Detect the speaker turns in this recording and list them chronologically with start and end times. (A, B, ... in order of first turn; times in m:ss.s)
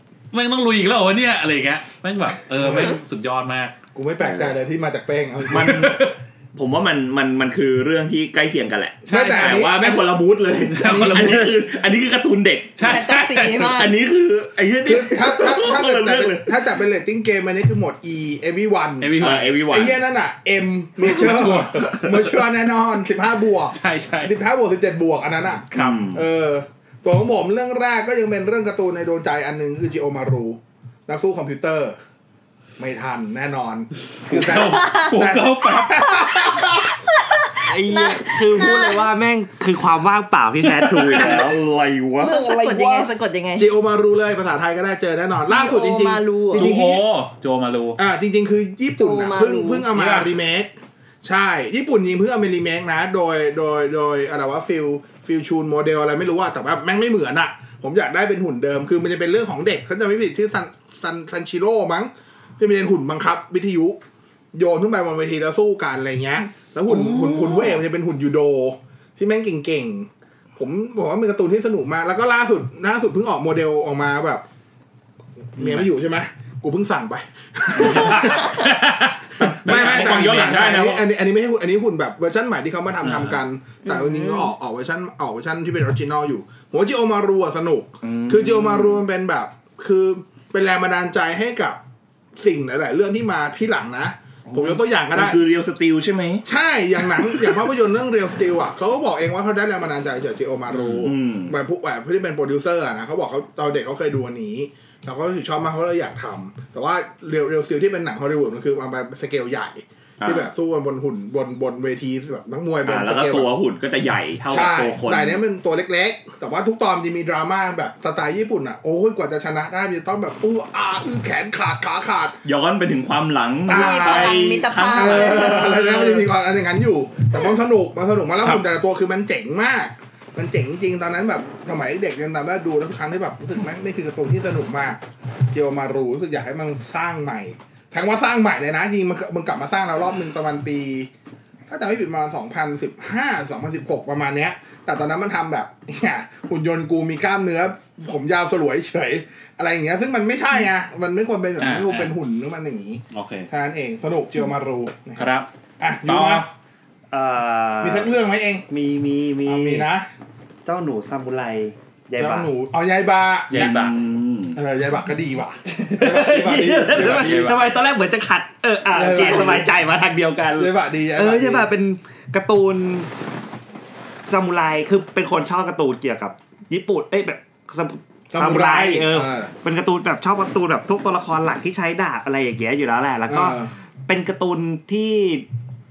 0:00.3-0:03.7 A
0:02.6-0:02.9 B
0:03.9-0:06.0 B
0:04.2-0:04.6 C
0:05.5-0:06.0 C
0:05.5-0:06.2 A
0:06.5-0:16.6 C
0:09.1-0:09.7 A
0:09.1-0:10.0 B
0:10.7-0:11.5 A
0:10.8-0:11.5 B
0:12.8-0:13.8 A
0:12.8-0:13.9 D
0:14.8-0:32.0 B
0:19.0-0:19.9 A
0:19.2-0:20.0 C
0:21.1-0:21.9 A
0:23.7-0:24.3 A
0:25.7-0:26.1 A
0:25.7-0:26.2 C
0:32.8-0:36.8 B
0:34.3-0:36.0 A
0:34.8-0:35.1 D
0:36.0-0:39.1 D
0:37.6-0:41.6 E
0:41.0-0:42.6 C
0:41.1-0:41.5 A
0:42.2-0:43.7 D
0:42.4-0:43.1 A
0:43.6-0:47.0 B
0:45.5-0:46.7 D
0:46.5-0:48.0 A
0:48.0-0:50.7 B
0:49.0-0:49.9 D
0:49.9-0:50.3 A
0:51.2-1:04.0 B
1:04.5-1:14.4 B
1:15.6-1:18.7 B
1:15.6-1:15.9 A
1:17.8-1:20.8 A
1:18.1-1:18.4 C
1:19.4-1:31.8 B
1:19.6-1:21.0 C
1:23.0-1:23.4 A
1:23.8-1:24.5 D
1:28.0-1:29.0 C
1:32.4-1:35.4 B
1:34.5-1:36.4 C
1:36.4-1:53.5 B
1:37.2-1:37.5 C
1:40.7-1:41.5 C
1:50.2-1:50.5 C
1:52.8-1:55.4 C
1:54.4-2:02.4 B
2:02.4-2:06.2 C
2:03.7-2:04.4 B
2:03.7-2:05.7 D
2:04.9-2:15.0 B
2:15.5-2:21.1 B
2:21.7-2:35.3 B
2:31.6-2:32.1 A
2:33.1-2:33.5 A
2:35.2-2:35.5 A
2:35.8-2:36.5 B
2:36.0-2:36.4 A
2:37.1-2:38.1 E
2:37.8-2:38.7 B
2:38.7-2:39.9 E
2:39.4-2:40.1 B
2:40.6-2:42.5 E
2:42.2-2:43.8 B
2:43.5-2:44.0 A
2:43.5-2:44.6 C
2:44.5-2:47.6 B
2:45.7-2:53.1 E
2:46.9-2:47.6 C
2:48.9-2:49.7 B
2:50.6-2:51.7 B
2:54.3-3:05.4 E
2:58.3-2:59.5 B
3:03.3-3:03.7 B